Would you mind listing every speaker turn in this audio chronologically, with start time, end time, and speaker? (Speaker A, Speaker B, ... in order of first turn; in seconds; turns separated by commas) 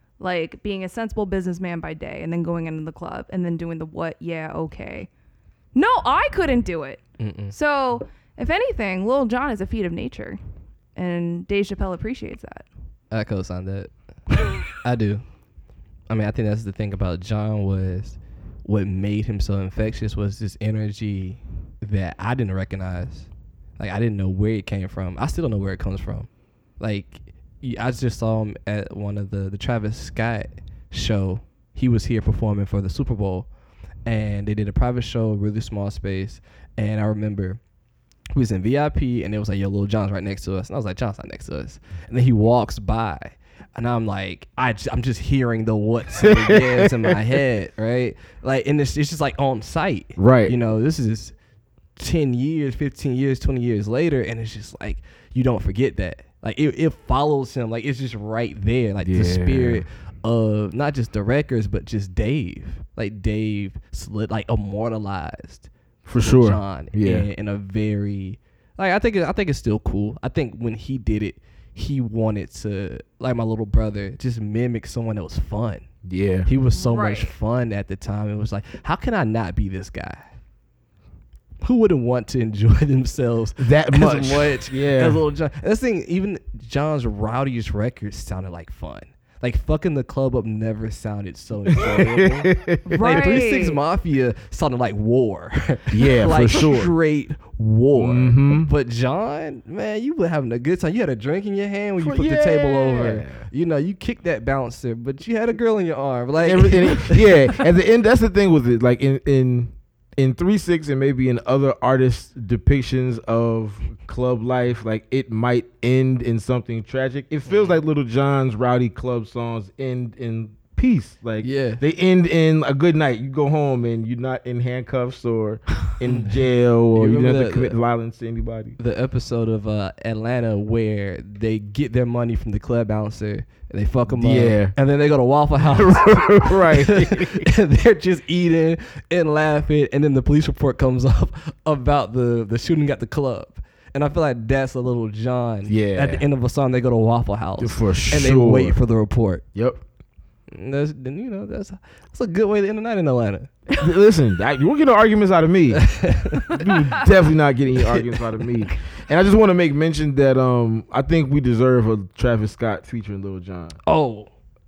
Speaker A: 0.2-5.1, Speaker A: 5.8-10.4, Speaker B: 7.2-7.5, Speaker A: 10.9-12.7, Speaker B: 13.1-15.3, Speaker B: 16.1-33.5, Speaker B: 34.1-37.6, Speaker B: 38.3-51.3, Speaker C: 46.2-47.1, Speaker C: 50.2-50.5, Speaker B: 52.0-75.9, Speaker C: 59.0-59.9, Speaker C: 66.1-67.3, Speaker C: 76.0-76.5, Speaker B: 76.5-80.3, Speaker A: 76.8-77.3, Speaker B: 81.6-107.6, Speaker C: 83.6-85.2, Speaker C: 91.7-93.0, Speaker A: 92.9-93.8, Speaker C: 95.9-96.9, Speaker C: 98.0-98.7, Speaker C: 102.0-103.5, Speaker C: 106.4-128.8, Speaker B: 117.5-117.8, Speaker B: 121.4-121.8, Speaker B: 126.0-126.4, Speaker B: 126.9-127.8, Speaker B: 128.8-149.4, Speaker C: 134.1-134.8, Speaker C: 135.6-137.5, Speaker C: 145.7-146.2, Speaker C: 147.6-148.8, Speaker C: 149.5-149.8, Speaker B: 150.5-153.5, Speaker C: 153.8-163.8, Speaker B: 155.8-156.7, Speaker B: 163.9-164.3